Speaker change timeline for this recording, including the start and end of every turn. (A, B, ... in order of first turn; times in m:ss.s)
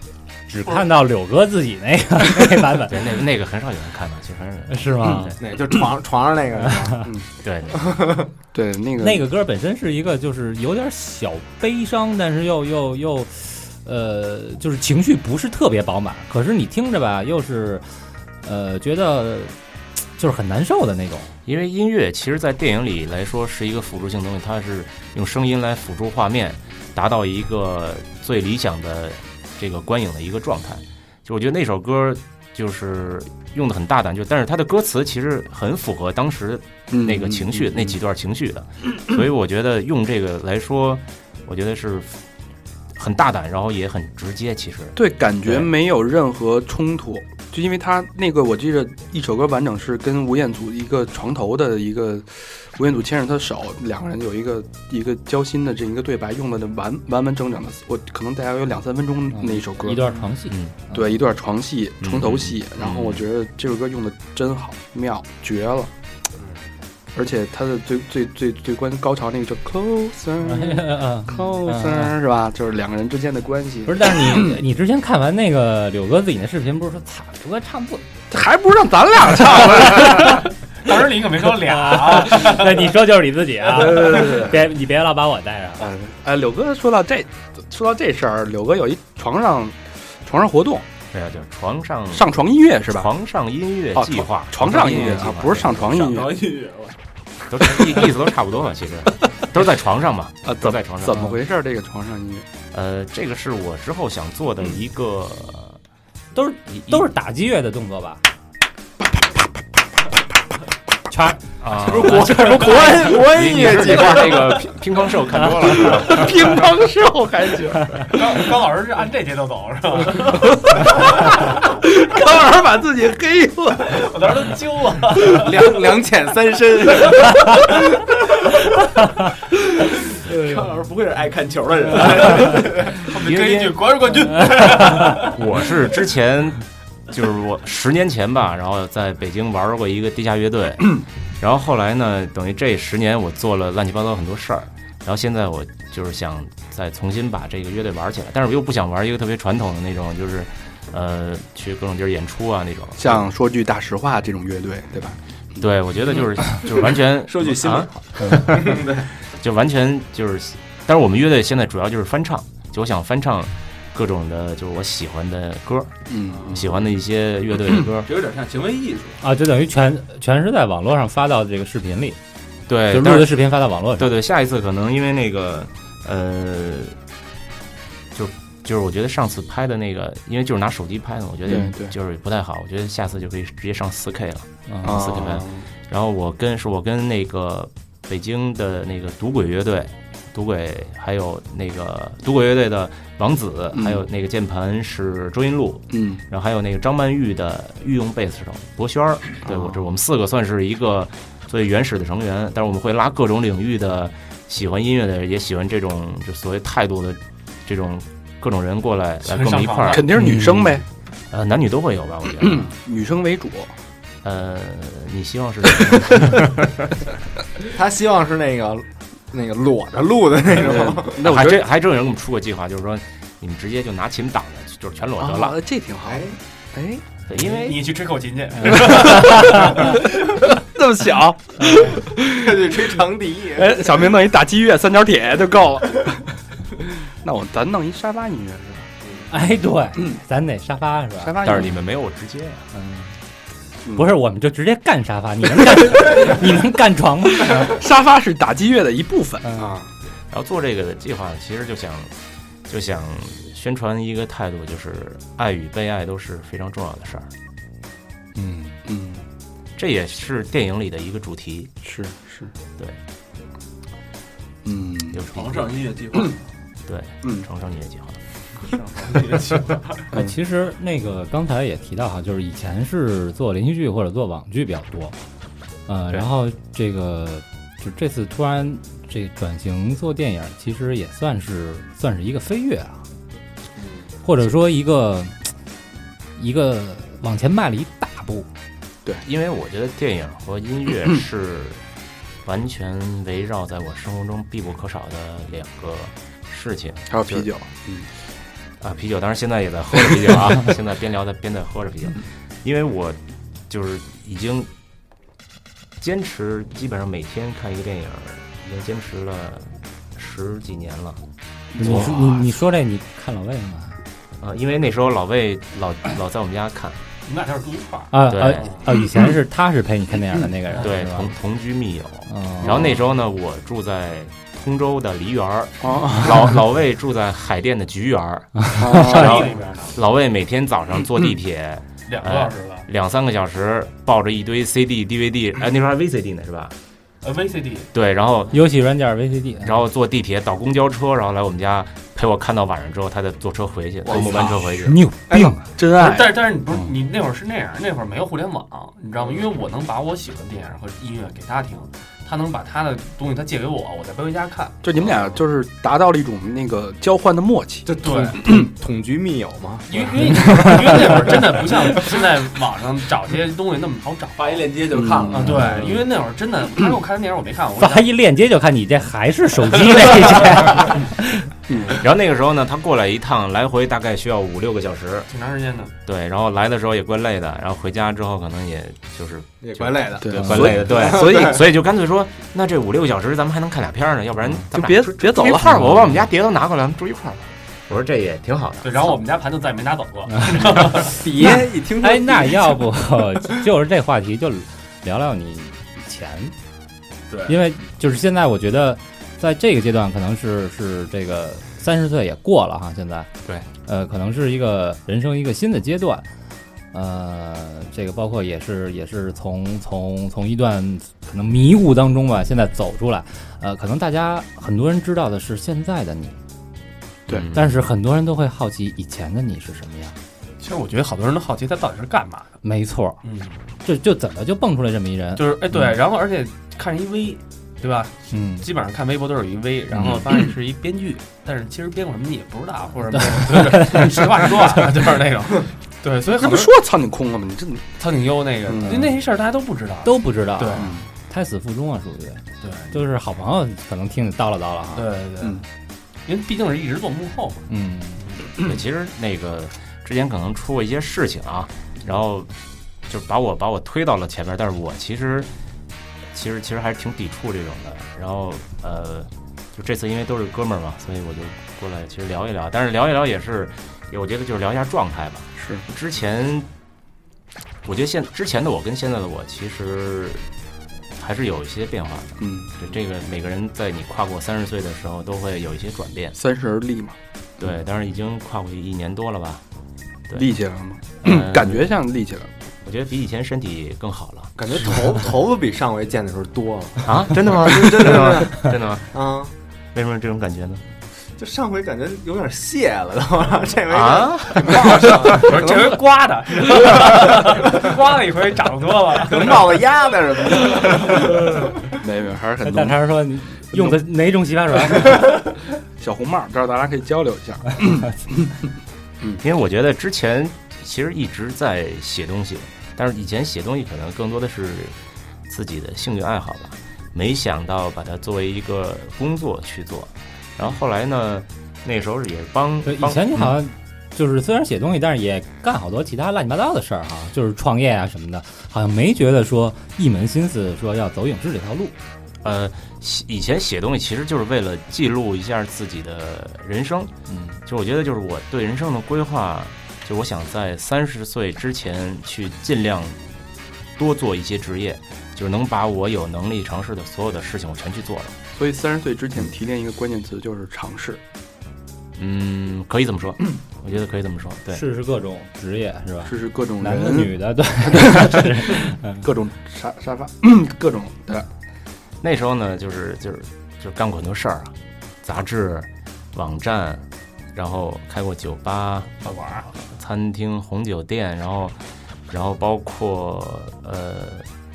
0:00.5-0:03.0 A
0:02.9-0:05.4 B
0:04.7-0:05.3 A
0:05.4-0:07.1 C
0:06.6-0:07.0 A
0:07.4-0:07.9 B
0:08.0-0:08.3 C
0:08.5-0:09.2 D
0:09.0-0:17.8 A
0:18.4-0:19.5 A
0:20.2-0:21.3 A
0:21.4-0:42.2 B
0:36.9-0:38.0 D
0:43.0-0:45.7 B
0:45.0-1:00.1 D
0:59.3-1:01.2 A
1:00.9-1:05.9 D
1:02.0-1:03.2 B
1:07.1-1:14.6 D
1:10.4-1:12.1 A
1:13.8-1:18.0 A
1:18.3-1:20.4 D
1:20.8-1:22.8 E
1:21.6-1:25.9 A
1:23.7-1:24.5 D
1:25.8-1:30.9 D
1:31.1-1:36.3 B
1:32.1-1:33.1 D
1:33.9-1:36.4 D
1:36.4-1:36.9 C
1:37.5-1:41.2 B
1:40.4-1:42.5 D
1:42.7-1:45.8 B
1:46.3-1:48.2 A
1:46.7-1:47.0 B
1:51.1-1:51.4 A
1:51.6-1:56.6 B
1:51.7-1:54.6 C
1:52.1-1:53.0 A
1:55.6-1:58.0 D
1:58.1-2:00.4 E
2:00.7-2:04.0 D
2:03.9-2:05.6 E
2:05.2-2:07.5 C
2:10.2-2:13.1 C
2:13.0-2:15.3 E
2:13.4-2:13.7 B
2:15.2-2:33.2 B
2:33.0-2:35.6 D
2:35.6-2:46.0 B
2:37.2-2:39.0 C
2:46.1-2:46.7 D
2:46.3-2:46.7 F
2:46.5-2:48.1 B
2:48.0-2:49.2 F
2:49.2-2:52.2 A
2:52.7-2:53.4 B
2:52.9-2:54.2 A
2:54.0-2:56.9 B
2:58.1-3:30.1 B
3:01.4-3:01.9 D
3:04.7-3:05.0 A
3:04.8-3:05.6 D
3:13.7-3:14.0 D
3:15.9-3:16.2 D
3:19.4-3:19.7 D
3:29.2-3:30.0 E
3:29.9-3:30.8 D
3:30.1-3:30.7 A
3:31.3-3:32.7 B
3:32.4-3:33.7 D
3:34.2-3:37.0 B
3:37.7-3:41.2 C
3:40.5-3:41.6 D
3:41.2-3:45.6 B
3:45.2-3:47.0 D
3:46.0-3:46.4 C
3:47.3-3:47.9 B
3:47.5-3:50.0 E
3:50.0-3:52.7 D
3:51.6-3:52.0 A
3:52.3-3:54.0 C
3:53.5-3:56.3 D
3:56.8-3:58.9 D
3:59.3-4:01.5 A
4:01.2-4:01.8 D
4:01.4-4:02.6 B
4:02.7-4:03.1 A
4:03.9-4:07.8 A
4:07.5-4:09.9 D
4:09.4-4:09.7 A
4:10.3-4:12.1 B
4:12.7-4:17.3 B
4:18.4-4:18.7 A
4:18.8-4:19.2 D
4:19.8-4:21.7 B
4:21.8-4:22.5 D
4:24.6-4:25.2 D
4:25.1-4:25.9 B
4:25.3-4:26.4 F
4:26.8-4:28.2 B
4:28.7-4:29.8 F
4:30.1-4:35.2 A
4:35.9-4:43.0 A
4:44.2-4:45.5 A
4:46.4-4:48.5 A
4:49.2-4:51.8 B
4:52.4-4:57.5 B
4:57.1-4:58.1 D
4:58.8-5:03.2 B
5:03.7-5:04.7 B
5:06.0-5:11.2 B
5:11.7-5:12.4 D
5:11.8-5:14.0 A
5:11.8-5:12.1 B
5:14.4-5:17.0 B
5:17.2-5:18.1 E
5:18.1-5:21.3 A
5:18.3-5:18.8 B
5:20.8-5:36.7 B
5:22.3-5:22.9 A
5:25.8-5:26.6 D
5:28.8-5:29.4 D
5:29.0-5:30.0 E
5:32.1-5:32.8 E
5:37.2-5:37.9 E
5:37.9-5:38.6 B
5:38.5-5:39.8 A
5:39.6-5:45.0 B
5:44.1-5:44.6 C
5:44.7-5:45.6 A
5:45.4-5:46.4 D
5:46.0-5:54.8 E
5:54.8-5:57.9 D
5:57.8-6:02.0 C
5:58.0-5:58.3 E
5:59.9-6:04.7 E
6:04.4-6:05.6 F
6:04.7-6:05.3 C
6:04.9-6:05.6 D
6:05.3-6:08.1 E
6:05.5-6:05.9 A
6:07.8-6:11.5 A
6:11.7-6:12.0 D
6:12.0-6:15.3 B
6:15.3-6:15.9 E
6:16.0-6:29.2 B
6:19.6-6:21.6 C
6:20.2-6:21.6 D
6:24.7-6:25.9 D
6:28.8-6:31.2 E
6:31.1-6:32.8 C
6:31.9-6:36.5 A
6:37.5-6:43.3 A
6:43.8-6:46.2 A
6:46.9-6:56.4 A
6:57.3-6:57.7 B
6:57.5-7:00.2 A
7:00.6-7:02.5 E
7:02.6-7:03.2 A
7:03.2-7:03.6 E
7:03.8-7:05.9 A
7:05.4-7:16.7 E
7:08.3-7:08.7 A
7:13.3-7:14.0 A
7:16.4-7:17.9 D
7:18.0-7:21.0 E
7:18.7-7:19.0 D
7:20.0-7:25.1 A
7:20.8-7:21.0 D
7:22.6-7:23.0 E
7:25.0-7:25.6 E
7:26.2-7:27.6 E
7:27.7-7:28.2 A
7:28.6-7:32.5 B
7:33.1-7:35.5 B
7:36.3-7:46.7 B
7:45.6-7:45.8 D
7:47.8-7:50.4 B
7:51.2-7:56.4 B
7:52.4-7:52.8 D
7:56.3-7:57.7 D
7:57.6-7:59.6 B
8:00.3-8:02.5 D
8:01.2-8:01.9 B
8:02.8-8:04.5 B
8:04.6-8:09.5 C
8:07.0-8:09.2 B
8:09.9-8:10.8 B
8:11.4-8:16.0 C
8:13.9-8:14.8 B
8:14.8-8:19.7 E
8:19.3-8:21.3 C
8:21.9-8:23.0 D
8:22.6-8:25.2 A
8:26.0-8:28.6 D
8:29.4-8:35.0 B
8:35.5-8:43.5 B
8:42.8-8:51.9 A
8:52.4-8:57.1 B
8:57.3-8:57.6 A
8:57.6-9:03.2 B
9:04.0-9:08.3 B
9:08.5-9:11.2 D
9:12.2-9:14.8 B
9:14.7-9:19.2 A
9:16.2-9:21.5 D
9:22.2-9:31.8 B
9:29.2-9:29.7 E
9:32.3-9:34.5 B